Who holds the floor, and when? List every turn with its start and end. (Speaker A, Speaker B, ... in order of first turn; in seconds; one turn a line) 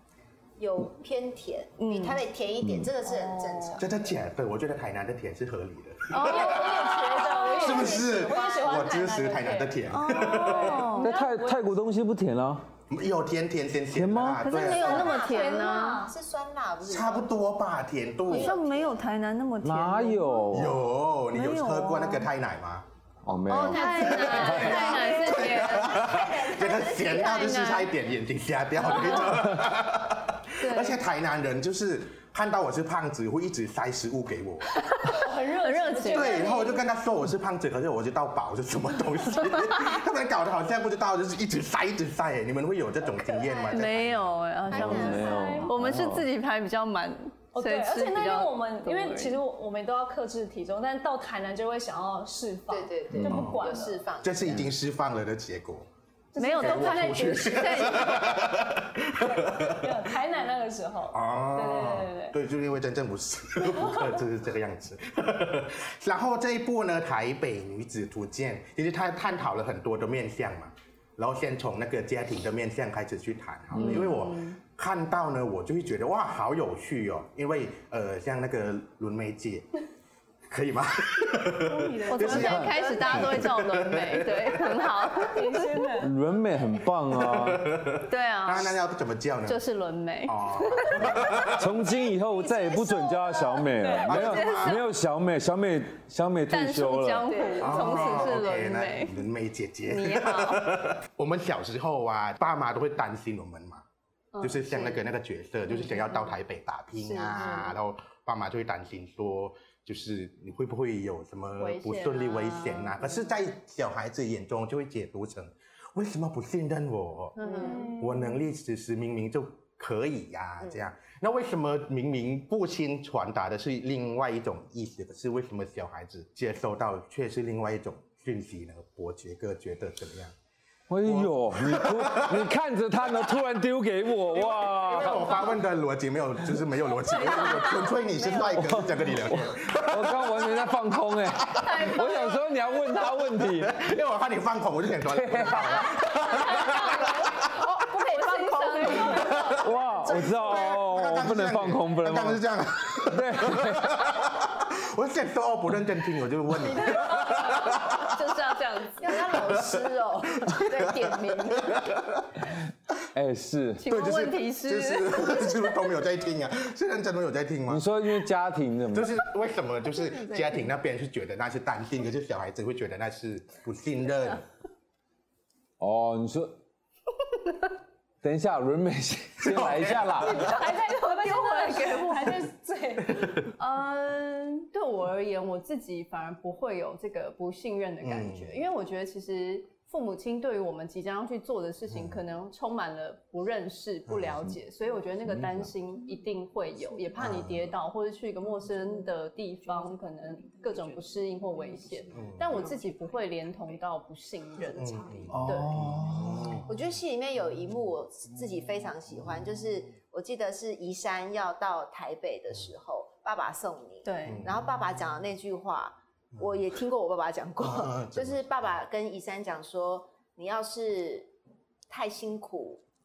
Speaker A: 0.6-3.9
Speaker B: 1.8-2.2
Speaker C: 2.6-2.9
Speaker D: 3.1-3.8
Speaker B: 3.3-3.7
Speaker E: 3.8-10.9
Speaker B: 6.1-7.7
Speaker D: 6.2-11.7
Speaker A: 7.2-8.9
Speaker B: 9.9-11.1
Speaker C: 11.0-12.7
Speaker E: 12.9-15.2
Speaker C: 13.9-14.5
Speaker B: 14.4-16.1
Speaker A: 14.6-17.3
Speaker D: 15.3-15.9
Speaker E: 16.9-18.6
Speaker A: 18.3-19.0
Speaker B: 18.3-20.5
Speaker C: 19.6-20.8
Speaker E: 20.5-22.9
Speaker B: 21.3-22.3
Speaker C: 23.2-25.0
Speaker A: 23.5-27.6
Speaker B: 23.5-26.0
Speaker E: 24.1-34.8
Speaker B: 27.1-27.9
Speaker B: 28.8-29.4
Speaker B: 30.6-31.0
Speaker B: 34.7-36.6
Speaker D: 35.1-36.7
Speaker E: 36.1-44.3
Speaker A: 36.2-36.8
Speaker B: 39.4-39.9
Speaker A: 43.2-44.0
Speaker B: 43.6-49.4
Speaker A: 44.7-45.6
Speaker C: 44.7-46.3
Speaker D: 45.0-45.7
Speaker D: 47.5-54.0
Speaker A: 52.7-54.7
Speaker C: 53.1-53.5
Speaker E: 54.2-55.9
Speaker D: 56.3-57.1
Speaker B: 56.4-58.5
Speaker E: 56.6-59.9
Speaker D: 59.2-62.4
Speaker E: 61.1-79.7
Speaker D: 63.7-64.1
Speaker B: 73.7-74.6
Speaker E: 80.5-85.3
Speaker B: 81.5-86.1
Speaker C: 82.2-83.4
Speaker A: 82.5-83.1
Speaker D: 85.3-86.1
Speaker C: 86.0-87.8
Speaker E: 87.1-89.6
Speaker B: 88.0-88.8
Speaker B: 89.4-91.6
Speaker E: 90.2-91.6
Speaker C: 91.5-97.4
Speaker A: 91.8-93.7
Speaker D: 93.8-94.3
Speaker B: 94.0-94.8
Speaker E: 94.0-94.8
Speaker B: 96.5-99.2
Speaker A: 97.3-98.3
Speaker E: 97.6-103.8
Speaker B: 99.8-100.7
Speaker B: 104.3-105.0
Speaker E: 104.4-130.3
Speaker B: 105.8-106.3
Speaker B: 107.0-107.7
Speaker B: 111.6-113.4
Speaker B: 117.4-118.0
Speaker A: 117.5-117.8
Speaker D: 117.6-118.4
Speaker C: 130.9-135.4
Speaker E: 131.0-132.5
Speaker E: 134.7-140.7
Speaker B: 134.8-135.6
Speaker B: 136.9-138.6
Speaker C: 138.3-143.8
Speaker E: 141.4-141.9
Speaker B: 141.6-143.0
Speaker E: 143.4-147.6
Speaker C: 145.1-146.0
Speaker B: 146.1-149.8
Speaker D: 146.3-147.3
Speaker A: 147.9-151.0
Speaker E: 148.9-149.6
Speaker C: 149.5-154.1
Speaker E: 150.1-158.3
Speaker B: 156.6-159.2
Speaker A: 159.0-161.6
Speaker E: 159.1-162.4
Speaker B: 160.9-161.8
Speaker C: 163.1-163.9
Speaker B: 163.8-166.0
Speaker E: 163.9-167.9
Speaker C: 167.7-169.2
Speaker E: 168.9-174.4
Speaker B: 169.9-170.7
Speaker C: 175.8-176.6
Speaker C: 178.2-180.6
Speaker E: 179.4-180.2
Speaker D: 180.2-183.3
Speaker B: 180.2-182.5
Speaker B: 183.4-205.9
Speaker E: 188.0-188.5
Speaker E: 191.9-192.2
Speaker C: 195.2-195.7
Speaker E: 197.2-197.7
Speaker E: 202.1-202.6
Speaker A: 202.4-203.0
Speaker E: 204.7-206.7
Speaker C: 205.3-206.7
Speaker A: 206.6-221.3
Speaker B: 214.0-214.5
Speaker E: 214.2-215.1
Speaker E: 216.3-216.6
Speaker E: 217.6-218.8
Speaker A: 221.9-222.8